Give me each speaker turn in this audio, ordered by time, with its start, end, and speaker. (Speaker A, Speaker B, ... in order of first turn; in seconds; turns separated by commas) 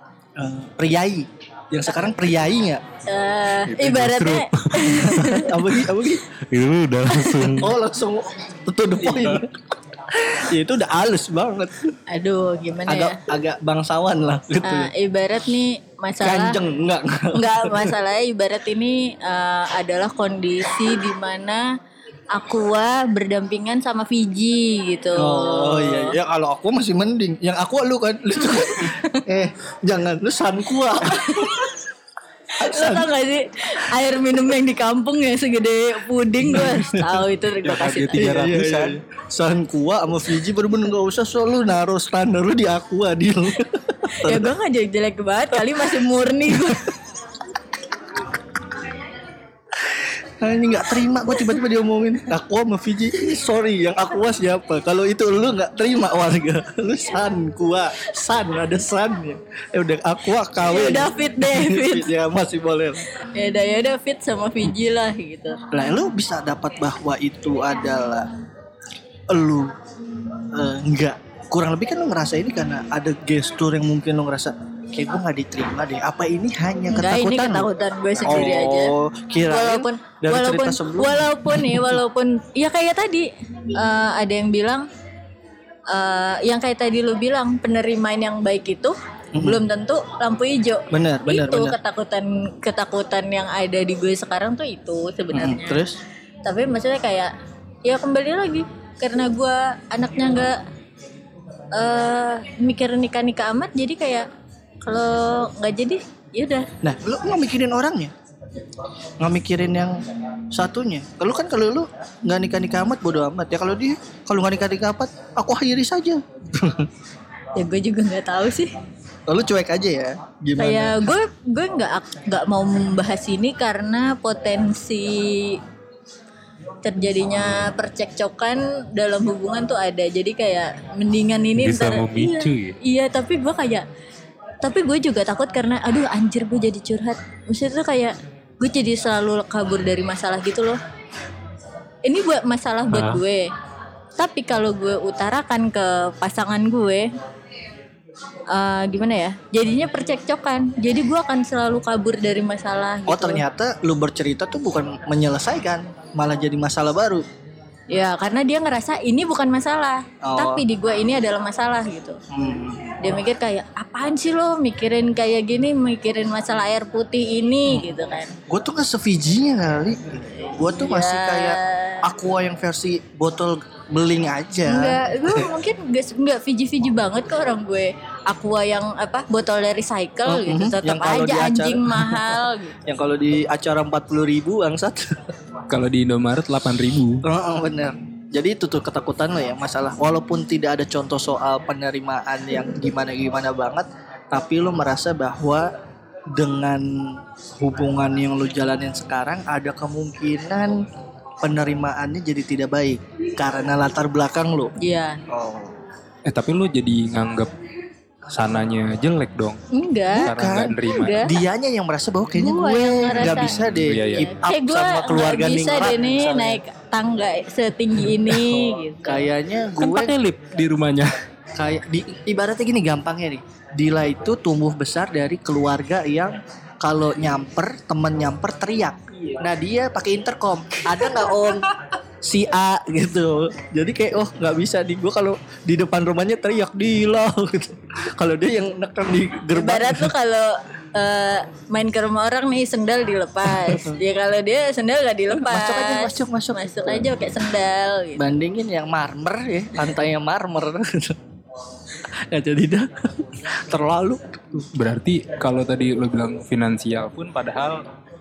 Speaker A: 0.4-2.8, Speaker B: 3.0-5.7, Speaker C: 3.6-5.8, Speaker A: 5.3-6.2, Speaker C: 6.3-7.8, Speaker B: 7.1-7.5, Speaker A: 7.6-11.9, Speaker C: 9.0-9.4, Speaker B: 12.1-13.2, Speaker A: 12.9-14.9, Speaker B: 14.6-16.6, Speaker A: 16.2-18.0, Speaker B: 17.3-21.6, Speaker B: 22.3-26.1, Speaker A: 25.1-31.6, Speaker B: 28.7-29.2, Speaker B: 31.1-31.7, Speaker B: 32.6-38.3, Speaker A: 32.6-33.1, Speaker A: 36.4-37.2, Speaker D: 37.6-39.0, Speaker A: 38.2-44.5, Speaker B: 44.1-46.9, Speaker A: 49.8-63.0, Speaker B: 60.6-62.1, Speaker B: 63.3-65.6, Speaker A: 65.7-68.3, Speaker A: 69.3-69.7, Speaker A: 70.5-77.7, Speaker B: 76.9-78.9, Speaker A: 78.2-82.0, Speaker B: 79.5-84.8, Speaker B: 85.9-95.8, Speaker A: 89.3-89.6, Speaker A: 90.9-91.8, Speaker A: 95.3-96.0, Speaker B: 96.4-97.3, Speaker B: 97.8-100.6, Speaker B: 101.7-104.3, Speaker B: 104.8-106.7, Speaker A: 106.8-108.1, Speaker A: 109.2-116.9, Speaker B: 117.5-118.7, Speaker A: 119.3-121.2, Speaker B: 120.6-125.6, Speaker B: 126.8-133.8, Speaker C: 131.6-132.8, Speaker B: 134.6-140.8, Speaker B: 142.0-143.5, Speaker C: 142.9-143.2, Speaker B: 144.2-147.1, Speaker B: 148.5-153.4, Speaker A: 153.1-157.2, Speaker B: 157.9-162.2, Speaker A: 160.2-160.6, Speaker A: 162.3-163.0, Speaker B: 163.0-168.3, Speaker A: 167.7-167.9, Speaker A: 168.5-175.0, Speaker B: 170.8-172.1, Speaker B: 174.7-182.8, Speaker A: 180.2-185.3, Speaker D: 185.7-187.2, Speaker A: 187.2-195.7, Speaker A: 196.3-200.8, Speaker A: 201.4-204.7, Speaker B: 204.8-205.2, Speaker A: 205.3-205.7, Speaker D: 206.2-207.5, Speaker D: 208.3-209.6, Speaker B: 209.7-210.3, Speaker A: 210.1-216.6, Speaker D: 210.1-211.2, Speaker B: 210.9-211.3, Speaker B: 212.3-213.5, Speaker C: 213.3-213.9, Speaker D: 213.7-214.3, Speaker B: 214.1-219.3, Speaker A: 219.0-220.1, Speaker D: 219.8-221.1, Speaker A: 221.6-240.1, Speaker B: 239.5-248.2, Speaker A: 243.6-244.0, Speaker A: 245.3-247.1, Speaker A: 248.2-251.2, Speaker A: 252.1-254.7, Speaker D: 254.7-257.8